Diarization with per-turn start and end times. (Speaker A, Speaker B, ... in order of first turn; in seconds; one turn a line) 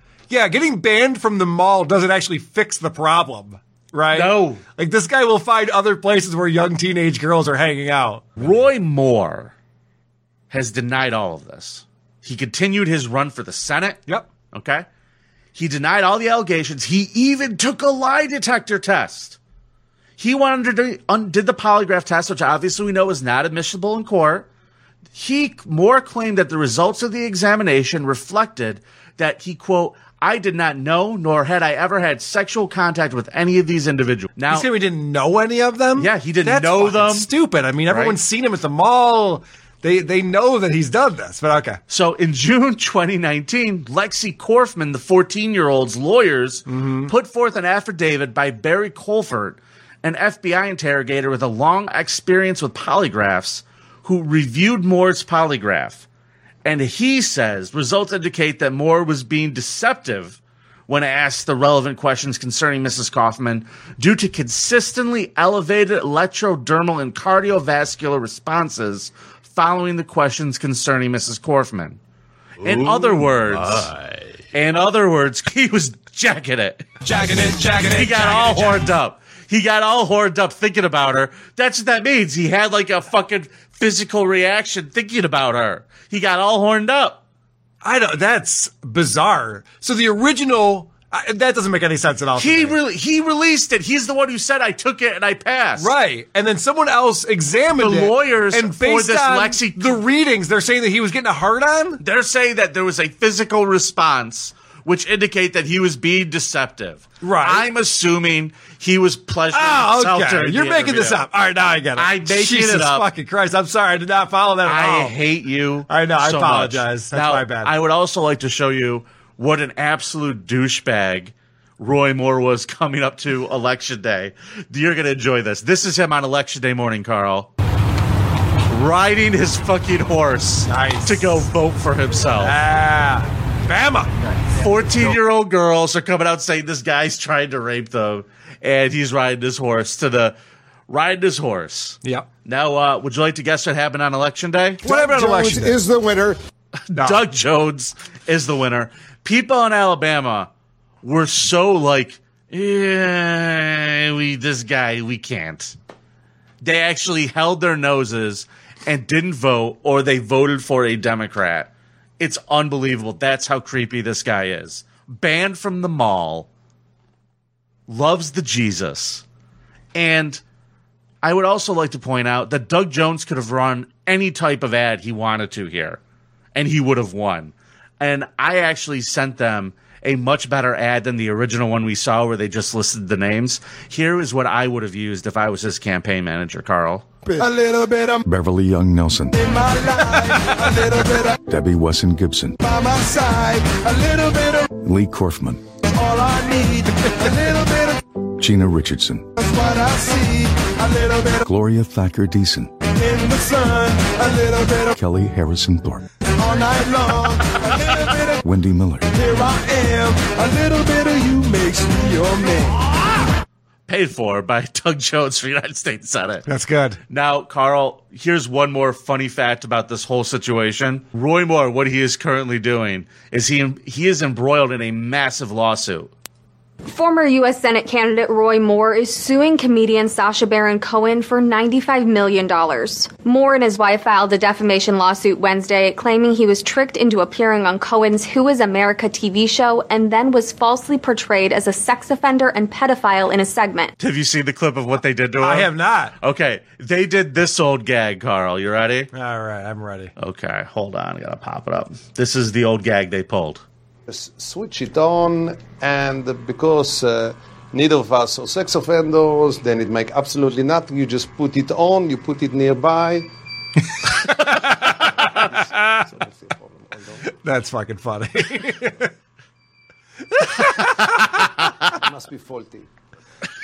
Speaker A: 0.3-8.4
Speaker B: 4.1-4.6
Speaker B: 8.4-9.5
Speaker B: 10.5-14.0
Speaker B: 14.5-14.8
Speaker B: 15.5-19.4
Speaker B: 20.2-24.5
Speaker B: 25.1-34.7
Speaker A: 34.5-41.8
Speaker B: 36.0-37.3
Speaker B: 37.9-38.2
Speaker B: 41.9-56.0
Speaker A: 46.7-47.1
Speaker B: 56.6-72.0
Speaker B: 72.6-73.9
Speaker A: 72.7-73.9
Speaker B: 74.5-76.8
Speaker A: 77.0-78.8
Speaker B: 77.8-87.2
Speaker A: 87.8-92.8
Speaker B: 92.4-95.9
Speaker A: 95.8-102.0
Speaker B: 97.8-100.0
Speaker B: 102.0-111.2
Speaker A: 107.2-107.7
Speaker A: 109.5-115.2
Speaker B: 112.0-113.0
Speaker B: 114.7-127.5
Speaker A: 115.9-117.7
Speaker B: 128.7-132.6
Speaker A: 130.7-131.4
Speaker A: 132.4-134.1
Speaker B: 134.6-140.3
Speaker B: 140.9-144.9
Speaker A: 144.8-145.8
Speaker C: 144.8-146.4
Speaker B: 146.9-150.5
Speaker A: 146.9-147.2
Speaker B: 151.0-155.7
Speaker B: 156.6-166.5
Speaker B: 167.9-169.2
Speaker B: 169.9-170.4
Speaker B: 171.2-176.0
Speaker B: 176.5-187.0
Speaker D: 187.3-188.2
Speaker E: 188.2-189.3
Speaker D: 189.3-191.3
Speaker A: 190.1-190.7
Speaker E: 191.5-192.6
Speaker D: 192.6-194.7
Speaker E: 194.8-195.6
Speaker D: 195.9-198.0
Speaker E: 198.4-199.3
Speaker D: 199.4-201.5
Speaker E: 201.4-202.7
Speaker D: 202.9-204.9
Speaker E: 204.9-206.1
Speaker D: 206.4-208.4
Speaker E: 208.4-209.1
Speaker D: 209.1-212.8
Speaker B: 213.9-216.4
Speaker A: 216.5-217.0
Speaker B: 217.1-226.1
Speaker F: 226.8-243.9
Speaker B: 244.0-249.1
Speaker A: 245.4-246.1
Speaker A: 249.1-250.1
Speaker B: 250.2-253.6
Speaker C: 254.1-263.3
Speaker C: 265.4-267.2
Speaker A: 265.8-266.0
Speaker A: 267.4-269.1
Speaker A: 270.4-271.1
Speaker B: 271.2-271.5
Speaker C: 271.9-272.9